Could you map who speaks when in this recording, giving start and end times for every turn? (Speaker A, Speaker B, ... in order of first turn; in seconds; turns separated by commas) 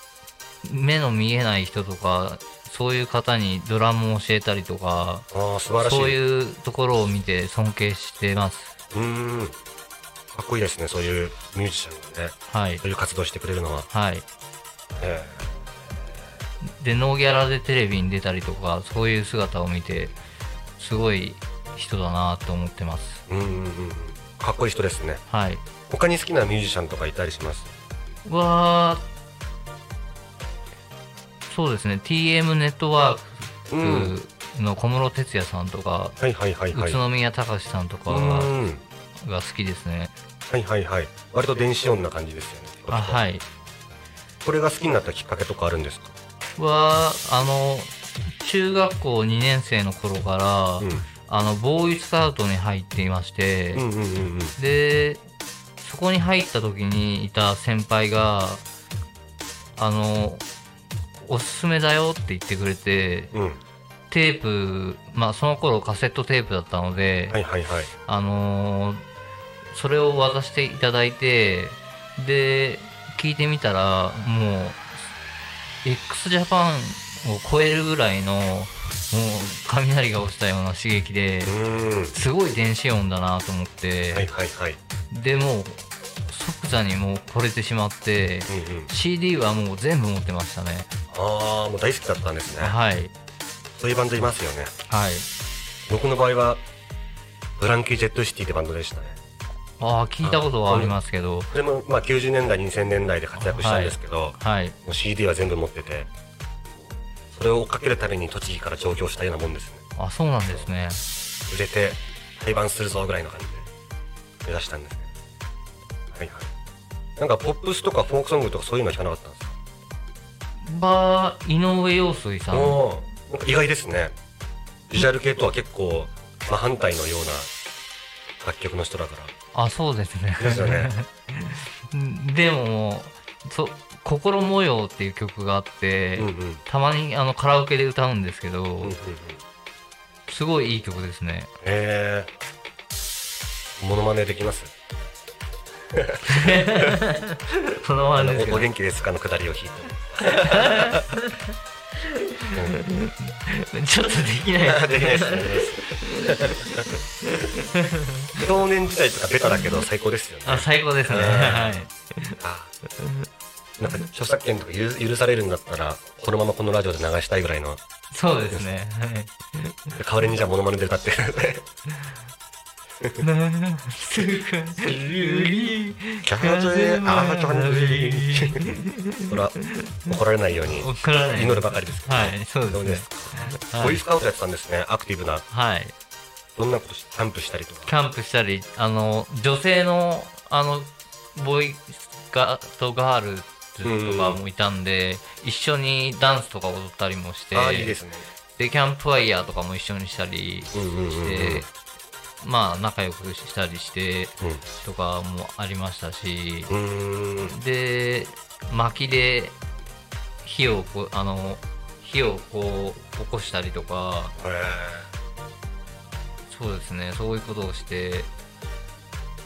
Speaker A: 0.6-5.3, Speaker B: 5.3-6.2, Speaker A: 5.8-8.8, Speaker B: 8.9-9.6, Speaker B: 10.3-13.9, Speaker A: 12.5-12.8, Speaker A: 13.9-14.2, Speaker B: 15.0-15.5, Speaker A: 16.8-20.2, Speaker A: 20.8-23.2, Speaker B: 23.3-25.2, Speaker A: 25.3-25.6, Speaker B: 25.9-27.7, Speaker A: 28.2-29.0, Speaker A: 31.5-36.2, Speaker B: 33.7-34.1, Speaker B: 36.2-37.0, Speaker A: 36.7-38.5, Speaker B: 38.1-38.8, Speaker A: 39.2-40.1, Speaker B: 40.5-43.2, Speaker A: 42.9-43.5, Speaker B: 44.4-46.1, Speaker A: 46.6-53.9, Speaker B: 50.8-51.1, Speaker B: 53.7-54.6, Speaker A: 54.6-55.2, Speaker A: 55.8-58.6, Speaker A: 59.8-60.5, Speaker A: 61.2-63.3, Speaker B: 63.3-63.6, Speaker A: 64.1-67.4, Speaker B: 67.3-67.9, Speaker A: 68.0-69.0, Speaker A: 69.7-74.9, Speaker A: 75.8-81.6, Speaker B: 81.5-82.2, Speaker A: 82.1-84.3, Speaker B: 84.1-84.8, Speaker A: 85.1-90.9, Speaker B: 88.5-88.9, Speaker B: 91.1-92.8, Speaker A: 92.6-93.1, Speaker B: 93.8-94.7, Speaker A: 94.9-95.3, Speaker B: 95.9-96.6, Speaker B: 97.6-99.2, Speaker A: 99.8-101.5, Speaker B: 100.2-101.0, Speaker B: 101.5-106.1, Speaker A: 103.3-104.8, Speaker B: 107.3-109.8, Speaker A: 110.0-111.0, Speaker B: 111.5-113.7, Speaker B: 114.4-115.1, Speaker B: 116.1-116.5, Speaker B: 117.2-119.5, Speaker A: 120.6-122.8, Speaker B: 122.5-124.1, Speaker B: 124.9-127.5, Speaker B: 128.4-129.3, Speaker A: 129.5-138.9, Speaker B: 130.4-130.9, Speaker B: 136.2-136.6, Speaker B: 138.8-139.4, Speaker A: 140.3-141.5, Speaker B: 141.6-142.3, Speaker B: 143.8-144.7, Speaker B: 145.9-146.9, Speaker A: 146.2-148.7, Speaker B: 148.1-151.1, Speaker A: 150.2-158.5, Speaker B: 152.5-152.8, Speaker B: 154.6-156.9, Speaker B: 158.4-161.8, Speaker A: 159.5-159.8, Speaker A: 160.4-162.4, Speaker B: 162.4-162.7, Speaker A: 163.0-163.2, Speaker B: 163.8-167.8, Speaker A: 168.1-170.0, Speaker B: 170.0-171.7, Speaker A: 173.2-184.0, Speaker B: 174.7-178.8, Speaker B: 179.3-185.4, Speaker A: 185.5-185.9, Speaker B: 186.6-187.9, Speaker A: 187.8-198.0, Speaker B: 193.8-194.4, Speaker B: 197.5-198.3, Speaker A: 198.6-201.7, Speaker B: 200.7-201.7, Speaker A: 202.4-206.7, Speaker B: 206.7-207.6, Speaker A: 207.4-209.6, Speaker A: 210.4-214.3, Speaker B: 214.4-215.1, Speaker A: 216.5-218.3